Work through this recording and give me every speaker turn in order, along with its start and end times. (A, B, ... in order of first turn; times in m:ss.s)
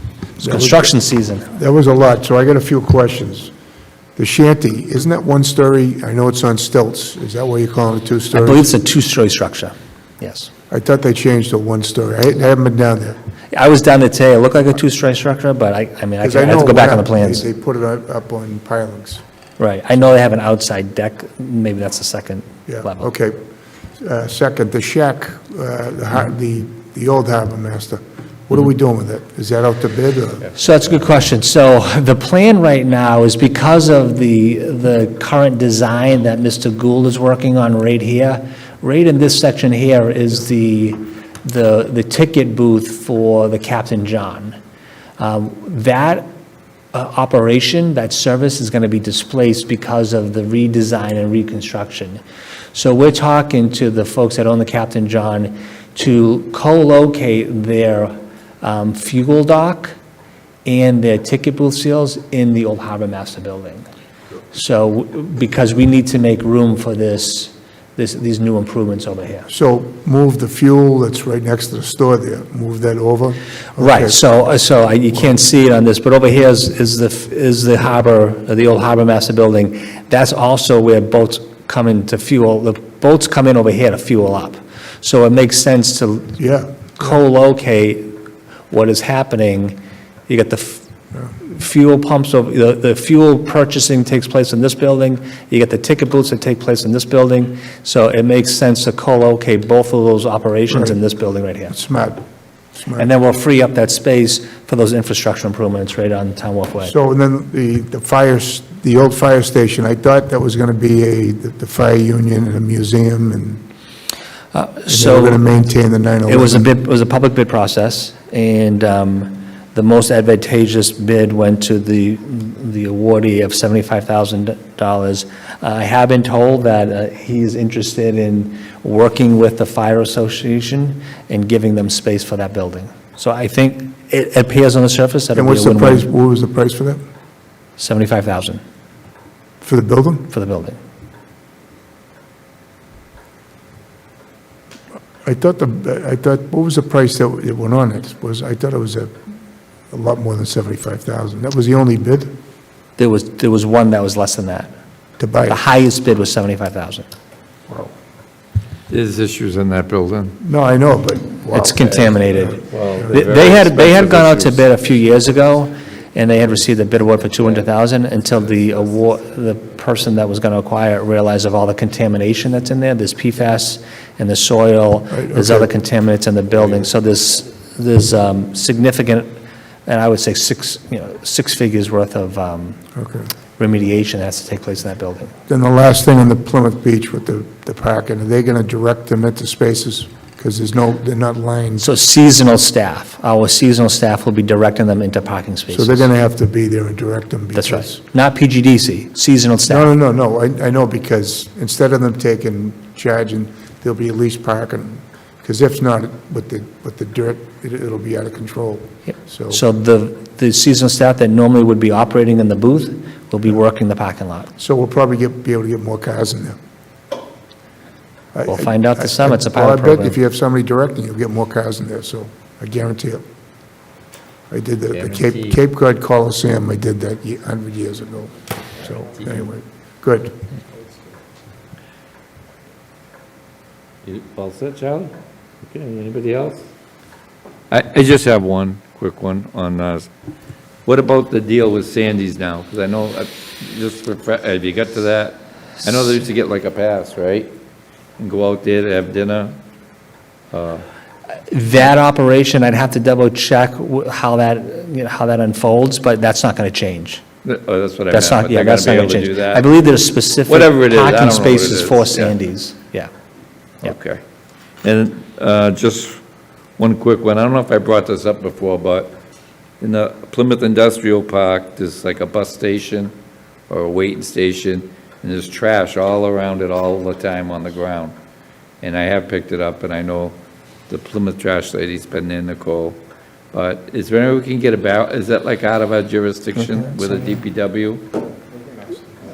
0:00.4-0:00.9 A
0:00.4-0:01.5 B
0:01.5-0:03.5 A
0:04.2-0:08.7 A
0:08.4-0:10.5 B
0:10.7-0:13.2 A
0:13.5-0:17.4 B
0:16.2-0:19.2 A
0:19.6-0:23.1 B
0:22.7-0:23.4 A
0:24.0-0:30.5 A
0:30.6-0:44.6 B
0:45.2-0:46.2 B
0:46.9-0:52.2 B
0:52.7-0:59.9 B
1:00.6-1:03.9 B
1:04.5-1:09.5 B
1:09.5-1:14.2 A
1:13.8-1:26.4 B
1:26.4-1:26.9 A
1:27.0-1:28.1 B
1:28.7-1:30.8 B
1:31.5-1:41.8 B
1:40.7-1:41.0 A
1:41.7-1:42.2 A
1:42.8-1:43.1 A
1:43.0-1:46.9 B
1:46.8-1:53.6 A
1:54.5-1:55.4 B
1:54.9-1:56.7 A
1:56.3-2:16.1 B
2:15.3-2:17.0 A
2:17.8-2:18.6 B
2:19.6-2:20.3 A
2:20.3-2:20.8 B
2:25.2-2:29.1 A
2:29.9-2:32.3 A
2:33.0-2:34.7 B
2:35.2-2:35.6 A
2:35.5-2:37.1 B
2:38.9-2:40.4 C
2:40.4-2:42.4 A
2:41.5-2:42.6 B
2:41.9-2:44.6 C
2:43.1-3:02.8 B
2:55.1-2:55.7 A
3:03.0-3:03.3 A
3:03.6-3:05.3 B
3:05.5-3:11.9 A
3:11.8-3:16.1 B
3:15.7-3:18.0 A
3:17.5-3:19.9 B
3:19.6-3:29.6 A
3:29.5-3:34.5 B
3:34.6-3:36.6 A
3:38.3-3:43.2 A
3:38.4-3:40.2 B
3:44.5-3:50.4 A
3:44.9-3:45.6 C
3:54.0-3:55.1 C
3:55.7-3:56.6 C
3:57.7-4:00.1 C
4:00.8-4:07.5 C
4:08.2-4:09.6 C
4:10.5-4:10.8 C
4:11.5-4:17.2 B
4:17.4-4:19.7 C
4:18.1-4:23.1 B
4:20.5-4:22.3 C
4:23.8-4:24.2 C
4:24.8-4:26.2 C
4:26.8-4:29.1 C
4:29.8-4:33.1 C
4:33.7-4:38.1 C
4:38.8-4:40.4 C
4:40.9-4:43.0 C
4:43.5-4:48.0 C